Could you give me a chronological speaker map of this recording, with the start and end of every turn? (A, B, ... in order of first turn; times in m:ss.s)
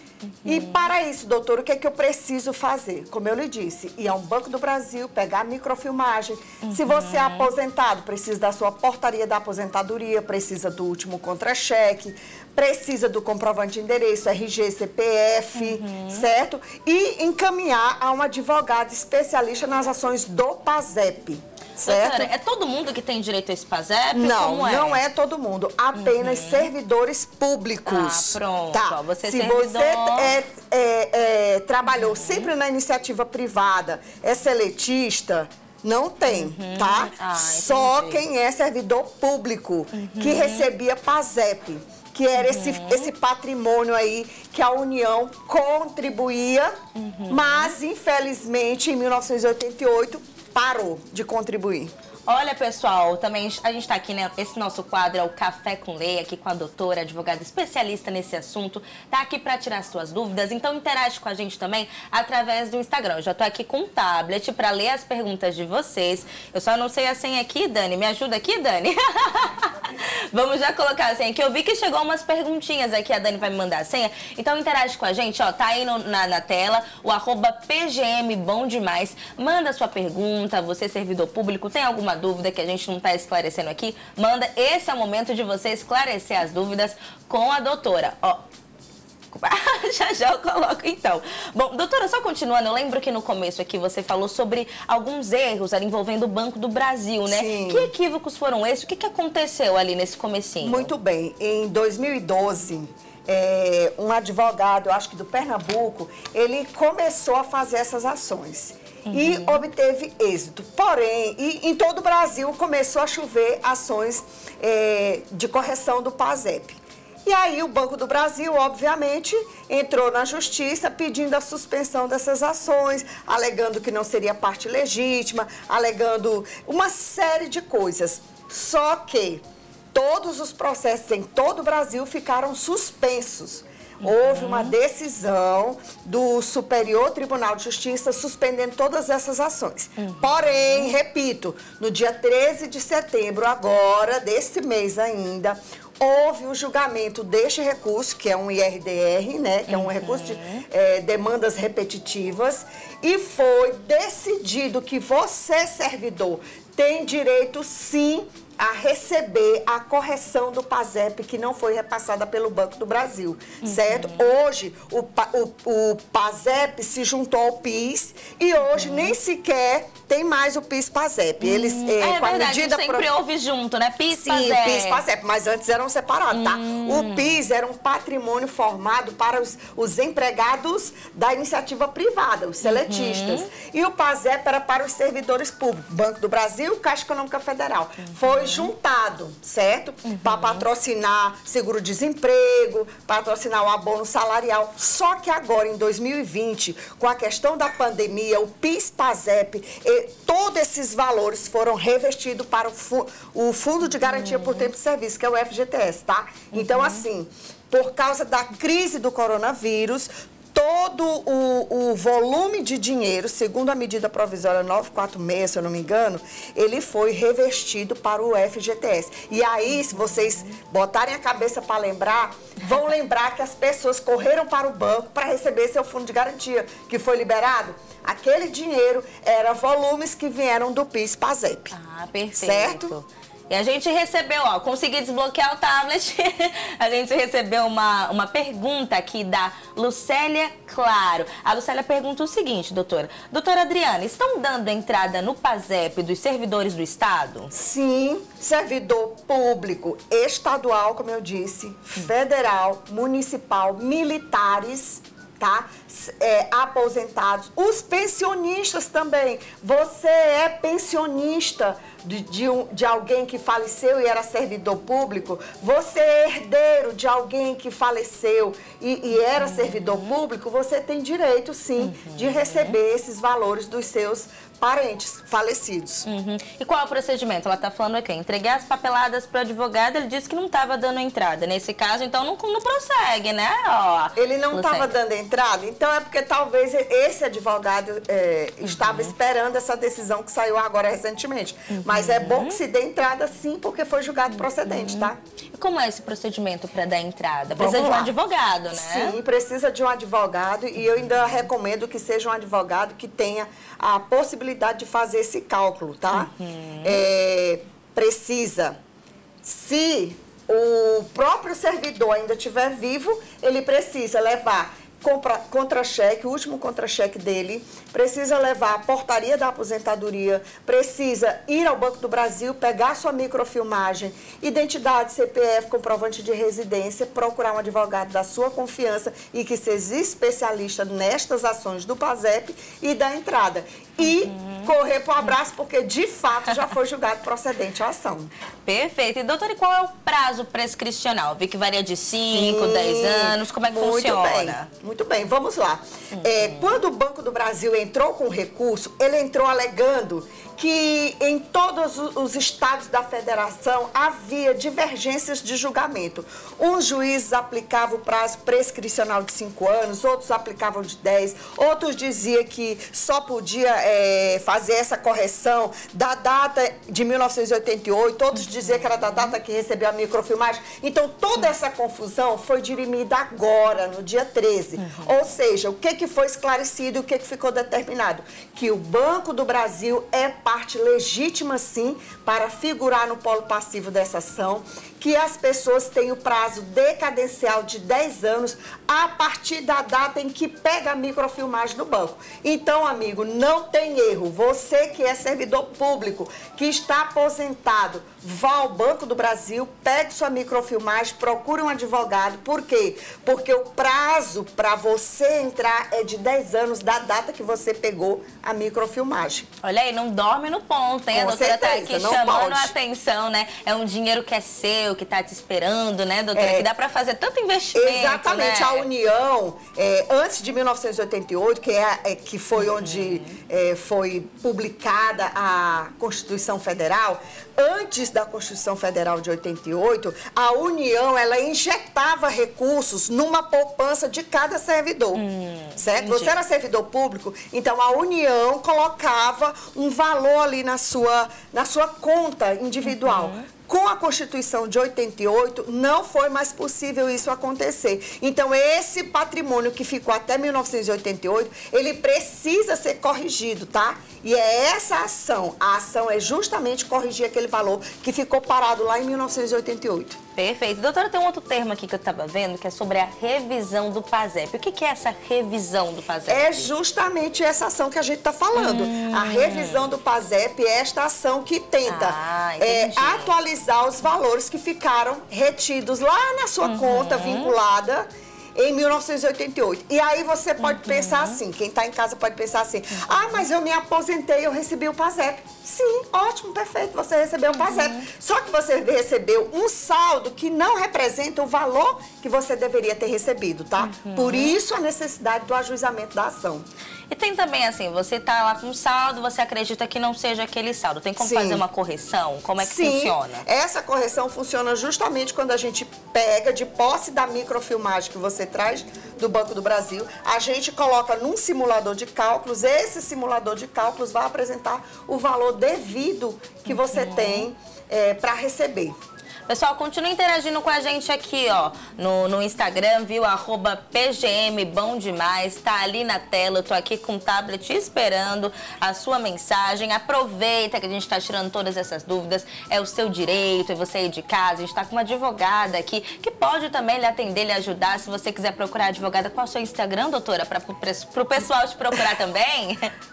0:00.2-0:00.9 A
0:00.4-0:22.3 B
0:06.6-0:07.5 A
0:15.5-0:16.3 A
0:21.8-0:25.0 A
0:24.1-0:46.7 B
0:25.9-0:26.7 A
0:27.8-0:30.3 A
0:31.9-0:32.5 A
0:36.3-0:38.2 A
0:39.9-0:40.7 A
0:42.4-0:43.1 A
0:46.9-0:47.7 A
0:47.3-0:51.9 B
0:52.3-1:28.4 A
1:29.3-1:40.9 A
1:37.3-1:37.9 B
1:40.6-2:09.4 B
1:49.1-1:49.6 A
2:09.9-2:53.1 B
2:14.0-2:14.8 A
2:20.0-2:20.9 A
2:29.7-2:30.6 A
2:43.6-2:44.3 A
2:48.8-2:49.1 A
2:51.4-2:55.0 A
2:54.1-3:51.7 B
2:56.3-2:57.4 A
3:02.6-3:03.5 A
3:08.0-3:08.7 A
3:10.0-3:10.7 A
3:24.0-3:24.7 A
3:26.5-3:27.0 A
3:39.9-3:40.5 A
3:51.7-4:07.5 A
3:52.3-3:52.9 B
4:07.5-4:36.0 B
4:29.4-4:30.0 A
4:31.8-4:32.8 A
4:36.0-4:44.9 A
4:44.2-4:55.2 B
4:48.6-4:49.1 A
4:51.7-4:52.6 A
4:54.4-4:59.2 A
4:57.6-4:58.2 B
4:58.7-5:08.8 B
5:06.1-5:07.0 A
5:09.4-5:38.3 B
5:34.0-5:34.7 A
5:38.6-5:44.7 A
5:42.3-6:49.5 B
5:46.1-5:46.8 A
6:14.8-6:15.2 A
6:49.6-6:58.9 A
6:51.1-6:52.7 B
6:56.3-6:56.7 B
6:57.7-7:15.2 B
7:02.6-7:03.4 A
7:15.1-7:16.3 A
7:15.8-7:40.2 B
7:22.8-7:23.4 A
7:40.4-7:46.7 A
7:46.3-8:16.6 B
7:48.5-7:49.9 A
7:51.8-7:53.3 A
7:56.6-7:57.6 A
8:00.6-8:01.4 A
8:03.0-8:03.4 A
8:07.5-8:08.1 A
8:13.8-8:14.5 A
8:17.1-8:23.4 A
8:21.2-8:21.6 B
8:22.6-8:39.0 B
8:36.7-8:37.5 A
8:39.5-9:02.9 A